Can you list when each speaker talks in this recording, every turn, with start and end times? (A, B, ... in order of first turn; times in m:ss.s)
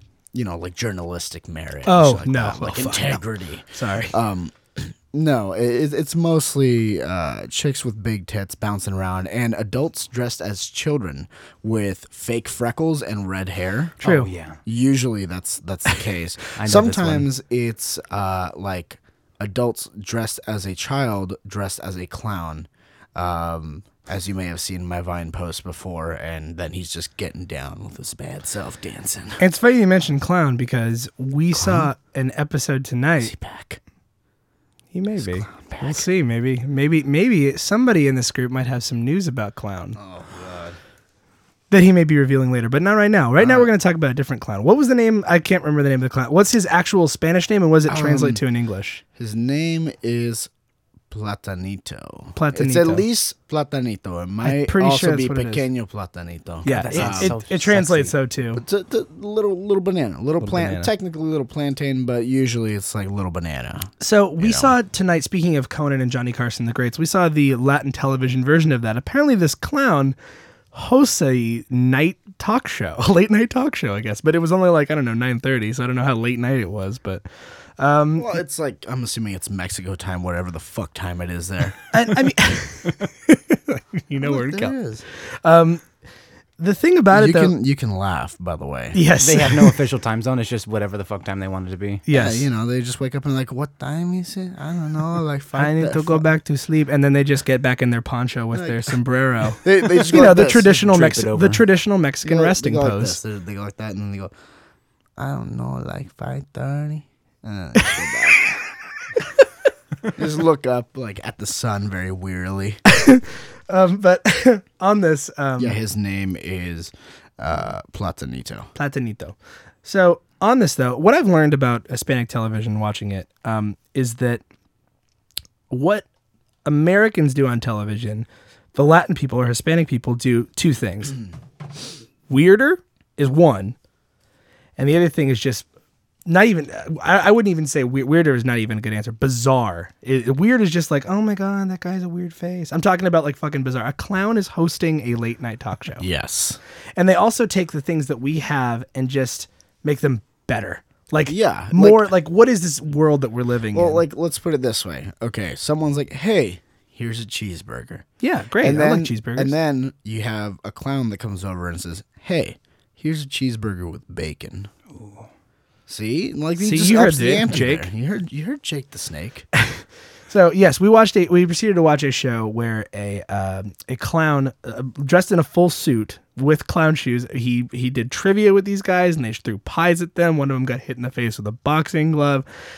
0:00.3-0:14.0 A
0:01.8-0:04.2 B
0:14.0-0:14.3 B
0:14.0-0:14.6 C
0:14.7-0:29.4 A
0:16.6-0:17.3 C
0:29.4-0:33.3 B
0:31.5-0:31.9 A
0:33.2-0:33.8 A
0:34.9-0:40.0 B
0:35.2-0:36.1 A
0:40.0-0:40.8 A
0:41.7-0:49.0 B
0:43.4-0:43.7 A
0:47.9-0:48.4 A
0:49.2-0:50.5 A
0:51.1-0:57.4 A
0:52.3-0:53.1 B
0:54.4-0:55.6 B
0:56.6-0:58.6 B
0:56.7-0:58.1 C
0:58.5-1:04.8 A
1:00.4-1:00.9 B
1:04.0-1:10.2 B
1:10.7-1:17.2 B
1:17.8-1:18.4 B
1:18.2-1:22.0 A
1:21.9-1:25.9 B
1:24.2-1:25.0 A
1:26.6-1:27.5 B
1:27.1-1:29.0 A
1:28.9-1:29.8 B
1:29.2-1:32.0 C
1:32.1-1:32.4 B
1:32.1-1:36.3 A
1:35.6-1:43.2 B
1:38.5-1:39.0 A
1:39.6-1:40.8 A
1:40.7-1:41.6 C
1:42.2-1:44.3 A
1:45.2-1:48.5 A
1:47.8-1:48.0 B
1:50.1-1:52.8 A
1:52.9-1:55.8 B
1:55.6-1:58.7 A
1:58.8-2:04.4 B
2:05.7-2:06.1 B
2:06.6-2:11.2 B
2:12.3-2:13.8 B
2:14.8-2:15.7 B
2:16.3-2:26.0 B
2:26.0-2:26.6 A
2:27.0-2:34.0 B
2:31.2-2:32.1 A
2:33.7-2:38.1 A
2:38.2-2:39.5 B
2:38.6-2:44.7 A
2:45.0-2:45.3 C
2:45.9-2:49.5 A
2:46.6-2:47.9 B
2:49.7-3:02.4 B